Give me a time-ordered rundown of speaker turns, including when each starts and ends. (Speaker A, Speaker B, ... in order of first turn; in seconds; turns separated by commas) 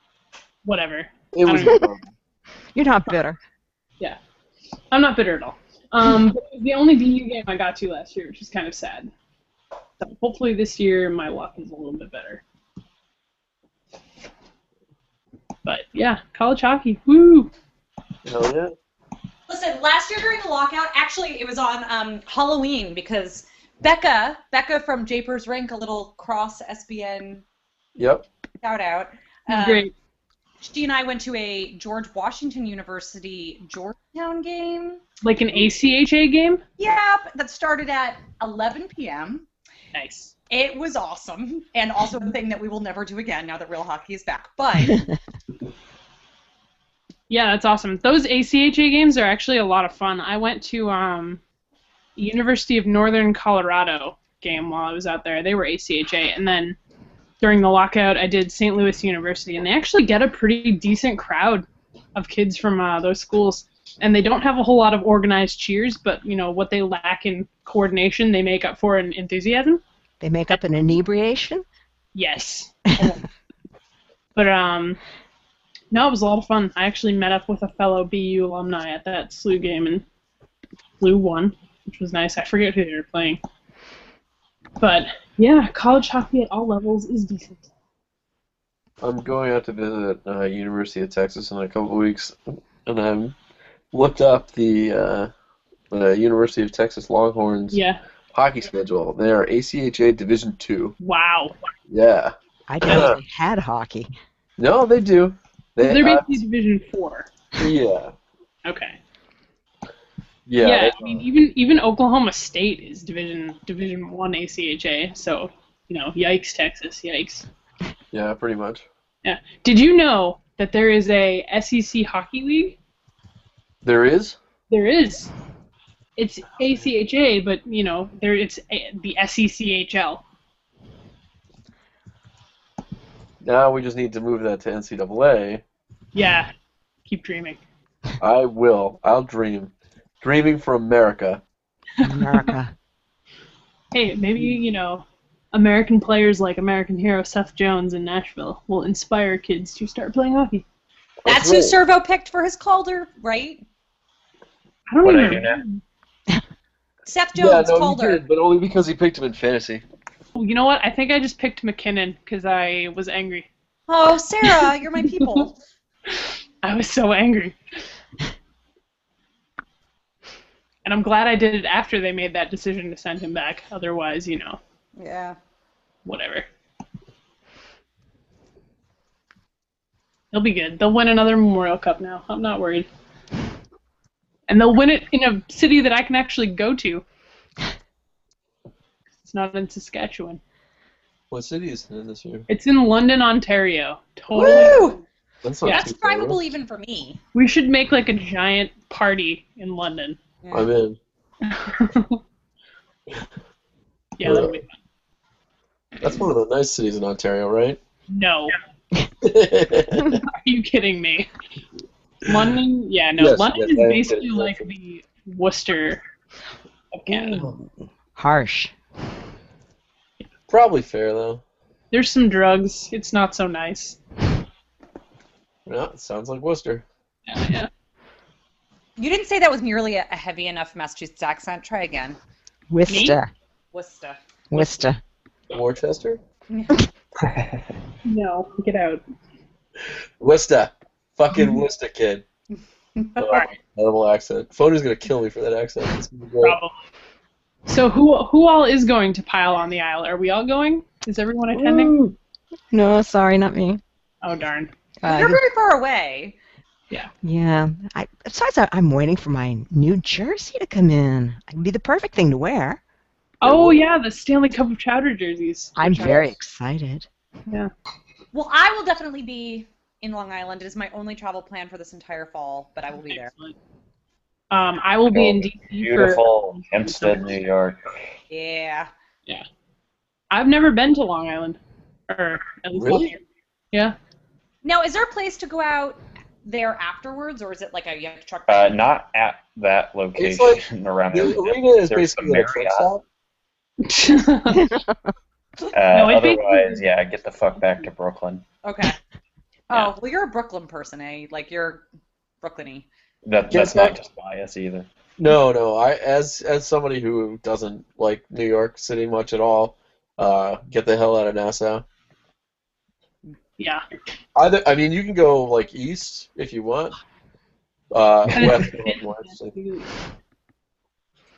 Speaker A: 0.6-1.9, Speaker B: 1.3-2.0, Speaker C: 2.7-3.4, Speaker A: 4.9-9.1, Speaker A: 10.0-12.4, Speaker A: 15.6-17.5, Speaker B: 18.2-18.7, Speaker D: 19.5-27.4, Speaker B: 27.9-28.2, Speaker D: 28.6-29.9, Speaker A: 29.5-29.9, Speaker D: 30.6-35.0, Speaker A: 35.2-36.6, Speaker D: 36.8-39.5, Speaker A: 39.9-40.3, Speaker D: 40.5-45.1, Speaker A: 47.3-51.4, Speaker A: 52.1-56.8, Speaker A: 57.4-69.8, Speaker C: 70.2-71.6, Speaker A: 72.1-73.2, Speaker A: 74.3-75.0, Speaker A: 75.9-80.0, Speaker A: 81.0-83.4, Speaker A: 84.8-87.6, Speaker B: 89.0-93.3, Speaker B: 93.9-95.3, Speaker B: 95.9-97.8, Speaker A: 97.7-98.0, Speaker B: 98.3-100.9, Speaker A: 101.0-101.5, Speaker B: 101.9-103.2, Speaker C: 102.7-104.1, Speaker B: 104.6-106.4, Speaker A: 105.8-107.3, Speaker B: 107.6-108.1, Speaker A: 108.6-109.0, Speaker B: 110.5-111.2, Speaker A: 110.6-117.5, Speaker B: 118.1-118.8, Speaker A: 119.2-122.8, Speaker B: 123.8-124.4, Speaker A: 124.7-125.3, Speaker A: 126.2-130.2, Speaker B: 133.4-135.6, Speaker A: 136.1-136.5, Speaker A: 137.1-137.6, Speaker B: 138.2-141.4, Speaker A: 142.0-142.5, Speaker C: 142.0-142.7, Speaker A: 143.9-150.6, Speaker B: 151.2-151.8, Speaker D: 151.2-153.6, Speaker A: 154.9-155.8, Speaker E: 155.0-155.6, Speaker D: 157.0-158.2, Speaker B: 157.4-159.8, Speaker A: 160.3-163.5, Speaker D: 163.9-165.6, Speaker A: 166.1-167.6, Speaker A: 170.8-174.6, Speaker D: 174.9-175.4, Speaker A: 176.0-176.5, Speaker A: 180.3-182.9, Speaker A: 184.5-187.0, Speaker A: 189.2-190.4, Speaker B: 191.3-192.4, Speaker A: 192.5-195.0, Speaker D: 194.3-195.0, Speaker B: 194.4-194.8, Speaker B: 195.4-196.5, Speaker D: 195.7-197.2, Speaker A: 197.3-200.2, Speaker D: 200.4-200.7, Speaker B: 200.5-201.0, Speaker A: 201.4-202.2, Speaker A: 204.2-204.7, Speaker B: 204.2-204.6, Speaker B: 206.0-207.8, Speaker A: 208.1-208.5, Speaker B: 209.2-210.2, Speaker A: 210.2-211.3, Speaker A: 212.2-216.0, Speaker B: 212.3-212.6, Speaker B: 213.2-214.6, Speaker A: 216.9-217.5, Speaker B: 217.1-217.5, Speaker C: 218.2-218.7, Speaker B: 220.5-221.4, Speaker A: 221.9-224.0, Speaker B: 225.7-226.8, Speaker A: 227.3-227.7, Speaker D: 229.0-232.2, Speaker C: 232.7-233.3, Speaker A: 232.9-233.2, Speaker D: 233.7-234.2, Speaker C: 234.5-235.0, Speaker B: 235.5-236.2, Speaker D: 236.5-236.8, Speaker E: 237.2-237.7, Speaker A: 238.0-239.0, Speaker B: 240.2-242.2, Speaker D: 242.9-243.4, Speaker B: 243.2-246.6, Speaker A: 246.4-246.8, Speaker A: 247.7-252.0, Speaker C: 251.6-251.9, Speaker C: 252.7-253.8, Speaker A: 254.2-254.7, Speaker C: 255.0-255.4, Speaker D: 255.0-256.4, Speaker C: 257.2-262.8, Speaker A: 263.4-266.3, Speaker B: 263.4-263.8, Speaker C: 265.8-267.1, Speaker D: 268.3-273.3, Speaker A: 273.0-273.5, Speaker A: 274.5-277.3, Speaker E: 275.1-278.0, Speaker D: 278.3-278.9, Speaker A: 280.3-283.2, Speaker B: 282.7-283.1, Speaker D: 284.6-288.8, Speaker E: 288.5-292.9, Speaker B: 290.2-293.0, Speaker A: 293.8-294.7, Speaker C: 294.5-294.9, Speaker E: 295.7-298.4, Speaker A: 295.9-296.8, Speaker D: 298.6-299.0, Speaker D: 299.7-301.8, Speaker D: 302.4-302.9, Speaker E: 303.2-304.9, Speaker B: 303.5-303.9, Speaker B: 305.2-311.8, Speaker A: 313.6-313.8, Speaker B: 314.3-316.9, Speaker B: 317.9-319.6, Speaker A: 318.3-319.9